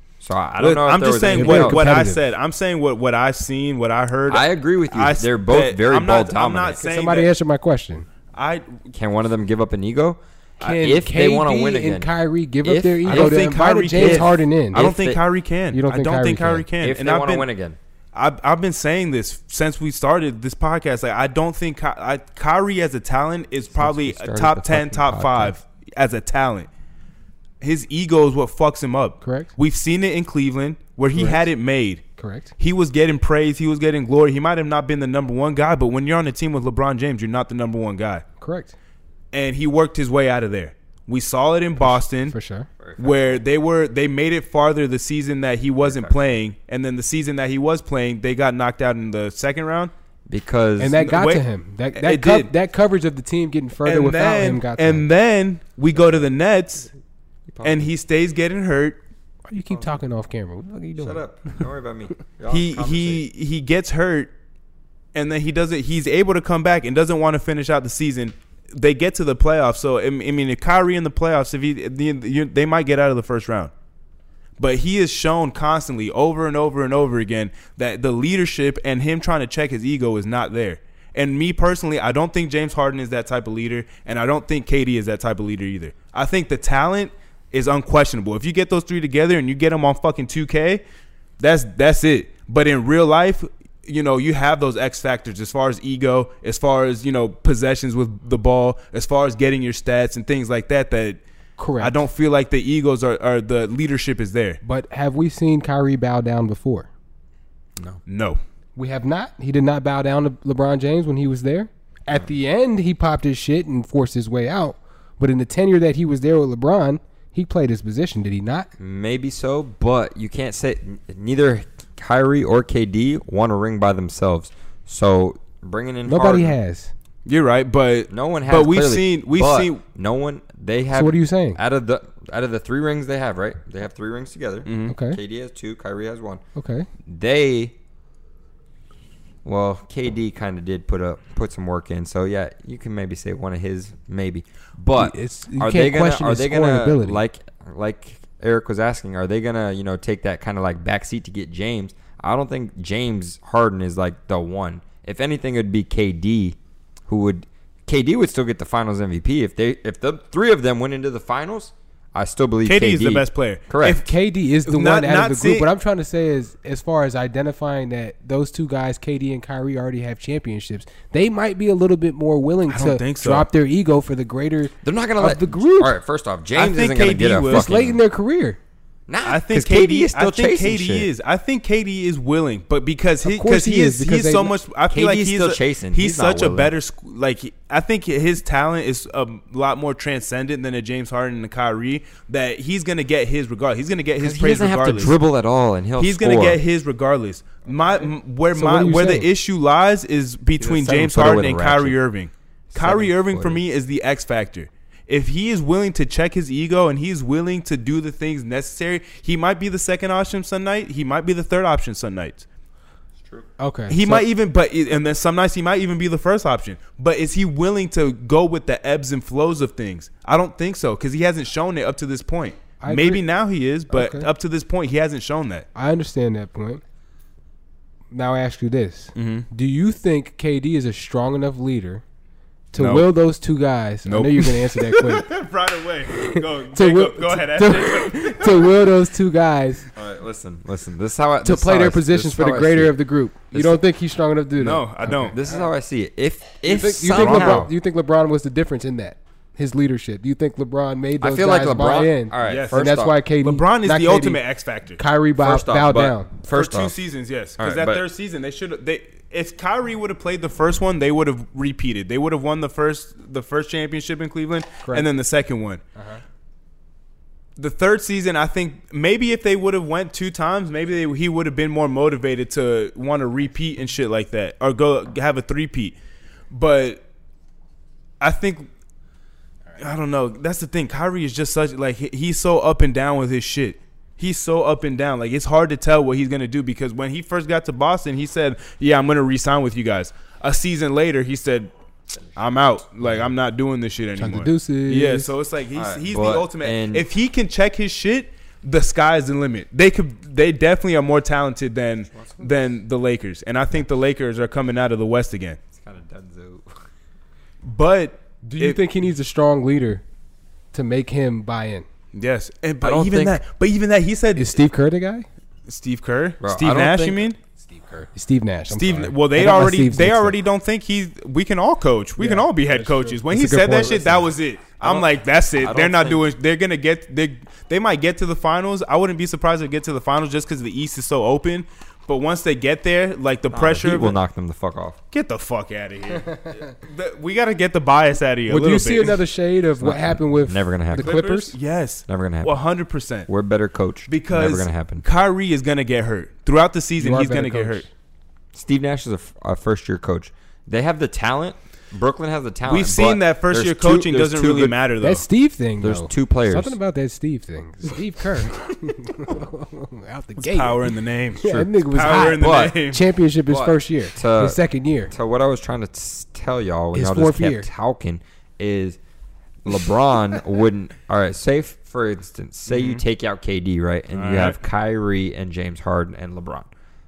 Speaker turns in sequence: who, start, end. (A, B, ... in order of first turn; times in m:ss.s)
0:00.2-0:01.8 A
0:00.6-0:07.3 B
0:01.3-0:02.2 C
0:04.3-0:06.8 A
0:06.8-0:08.1 C
0:08.3-0:08.8 B
0:08.9-0:12.1 A
0:10.6-0:14.8 C
0:12.6-0:15.2 A
0:13.0-0:17.5 B
0:15.7-0:16.7 C
0:16.8-0:17.8 A
0:18.1-0:26.7 B
0:23.7-0:25.5 A
0:27.6-0:32.0 B
0:29.2-0:29.5 C
0:31.1-0:31.4 C
0:32.2-0:32.5 C
0:32.6-0:38.2 B
0:38.4-0:38.7 C
0:39.3-0:42.3 B
0:41.8-0:42.7 C
0:42.8-0:43.4 A
0:43.0-0:49.9 B
0:45.8-0:46.1 A
0:50.3-0:51.0 A
0:50.8-0:55.0 C
0:51.0-0:52.5 B
0:53.8-0:56.9 B
0:57.5-0:57.9 A
0:57.6-0:59.0 B
0:59.5-1:01.6 C
1:01.0-1:03.2 A
1:02.5-1:04.3 B
1:05.1-1:13.7 B
1:14.6-1:30.8 B
1:31.4-1:41.2 B
1:41.6-1:42.0 C
1:41.8-1:44.6 B
1:44.6-1:46.9 C
1:48.0-1:48.4 B
1:48.8-1:58.7 C
1:58.8-2:06.6 A
2:06.0-2:06.9 C
2:07.2-2:09.8 B
2:08.1-2:16.4 A
2:10.9-2:11.6 C
2:14.6-2:14.9 B
2:14.9-2:15.2 C
2:16.6-2:16.9 C
2:17.0-2:17.7 A
2:19.4-2:36.6 A
2:25.0-2:27.2 C
2:37.1-2:44.0 A
2:42.6-2:44.1 B
2:44.0-2:55.9 C
2:44.6-2:45.7 B
2:52.7-2:53.5 B
2:54.8-2:58.0 A
2:56.5-2:57.8 B
2:57.5-2:58.6 C
2:59.1-3:01.1 A
2:59.2-3:15.2 B
3:03.2-3:04.6 C
3:04.9-3:06.7 A
3:14.2-3:16.6 A
3:16.0-3:32.4 B
3:18.5-3:19.3 C
3:20.6-3:22.0 A
3:22.7-3:23.6 A
3:33.6-3:34.2 C
3:33.9-3:45.6 B
3:42.8-3:43.2 C
3:43.9-3:44.3 C
3:45.7-3:46.8 C
3:48.1-3:52.0 C
3:49.2-3:49.4 B
3:52.7-3:55.3 C
3:52.7-3:53.1 B
3:54.0-3:58.8 B
3:56.1-3:59.9 C
3:59.9-4:02.9 A
4:01.4-4:05.6 C
4:03.5-4:03.8 A
4:04.6-4:05.4 B
4:05.3-4:07.7 A
4:06.6-4:14.4 C
4:07.1-4:07.7 B
4:11.2-4:13.1 A
4:12.4-4:12.9 B
4:13.4-4:15.0 B
4:15.0-4:16.3 C
4:15.4-4:16.9 A
4:16.5-4:25.8 B
4:17.6-4:18.0 A
4:26.0-4:26.2 C
4:27.6-4:36.0 B
4:36.5-4:37.0 B
4:38.2-4:38.7 B
4:39.8-4:51.7 B
4:52.4-5:05.6 B
4:54.2-4:55.3 C
4:55.7-4:57.0 A
5:02.1-5:02.6 A
5:05.7-5:06.8 A
5:07.6-5:08.8 B
5:08.4-5:10.0 C
5:10.7-5:11.9 C
5:12.1-5:14.6 B
5:12.8-5:13.4 A
5:14.4-5:15.2 C
5:15.7-5:17.4 B
5:16.4-5:17.2 A
5:17.6-5:20.4 C
5:18.7-5:34.2 B
5:22.2-5:24.3 C
5:24.8-5:26.3 A
5:33.5-5:35.0 A
5:35.1-5:39.2 B
5:38.5-5:41.5 C
5:39.8-5:41.2 A
5:40.9-5:43.3 B
5:42.1-5:42.6 A
5:43.3-5:45.0 A
5:44.1-5:47.8 B
5:47.0-5:47.9 C
5:48.5-5:54.8 A
5:52.7-5:55.2 B
5:55.0-6:05.1 C
5:55.8-5:56.8 A
6:00.4-6:03.0 B
6:01.5-6:02.8 A
6:03.5-6:09.0 A
6:06.9-6:07.7 C
6:09.6-6:16.7 A
6:12.7-6:13.0 B
6:14.1-6:14.6 B